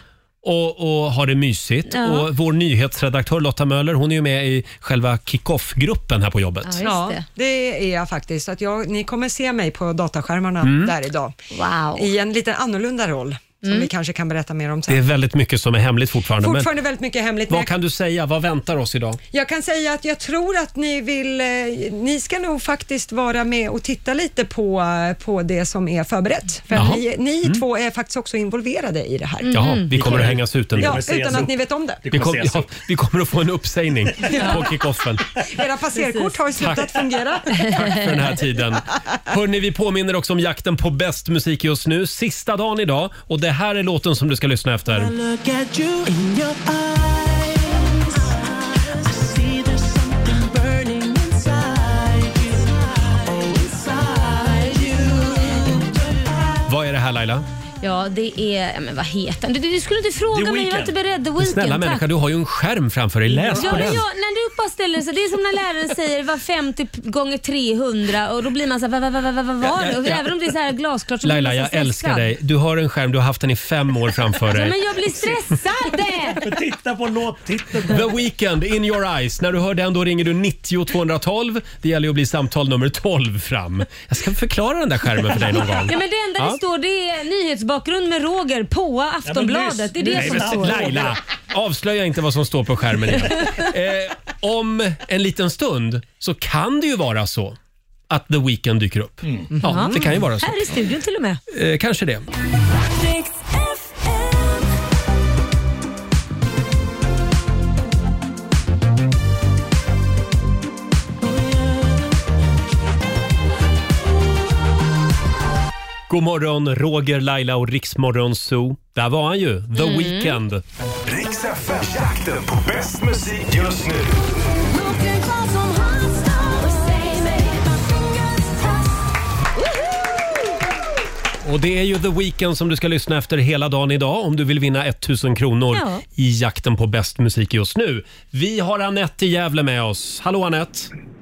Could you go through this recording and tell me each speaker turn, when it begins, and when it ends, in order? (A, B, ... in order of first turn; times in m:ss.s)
0:00.4-0:06.8 A
0:01.9-0:02.3 B
0:06.6-0:07.2 B
0:06.8-0:11.4 C
0:10.6-0:10.9 A
0:11.5-0:12.1 B
0:12.0-0:15.0 C
0:13.6-0:13.9 B
0:14.9-0:16.7 A
0:16.4-0:17.7 C
0:17.5-0:19.2 A
0:19.3-0:29.8 C
0:26.7-0:27.6 A
0:29.4-0:29.9 B
0:29.5-0:31.0 A
0:29.9-0:32.7 D
0:30.8-0:32.0 C
0:32.1-0:35.3 A
0:34.3-0:34.6 C
0:34.3-0:34.6 B
0:35.5-0:37.8 C
0:36.0-0:36.3 B
0:36.6-0:37.0 A
0:37.6-0:45.1 A
0:37.6-0:38.0 B
0:44.9-0:56.6 E
0:56.7-0:57.5 A
0:57.8-1:02.0 B
1:00.3-1:01.0 D
1:01.4-1:04.0 A
1:03.5-1:12.3 B
1:09.8-1:10.3 A
1:11.2-1:15.4 A
1:14.5-1:16.4 B
1:16.4-1:18.1 D
1:17.9-1:26.6 A
1:25.4-1:25.8 D
1:25.8-1:30.9 B
1:29.2-1:31.2 D
1:30.1-1:37.6 A
1:38.1-1:40.8 A
1:39.2-1:39.5 D
1:39.6-1:41.4 B
1:41.5-1:42.3 A
1:43.0-1:44.1 B
1:56.1-2:00.6 A
1:59.8-2:00.4 B
2:01.1-2:04.3 F
2:04.7-2:08.9 E
2:11.4-2:20.9 A
2:15.7-2:16.0 B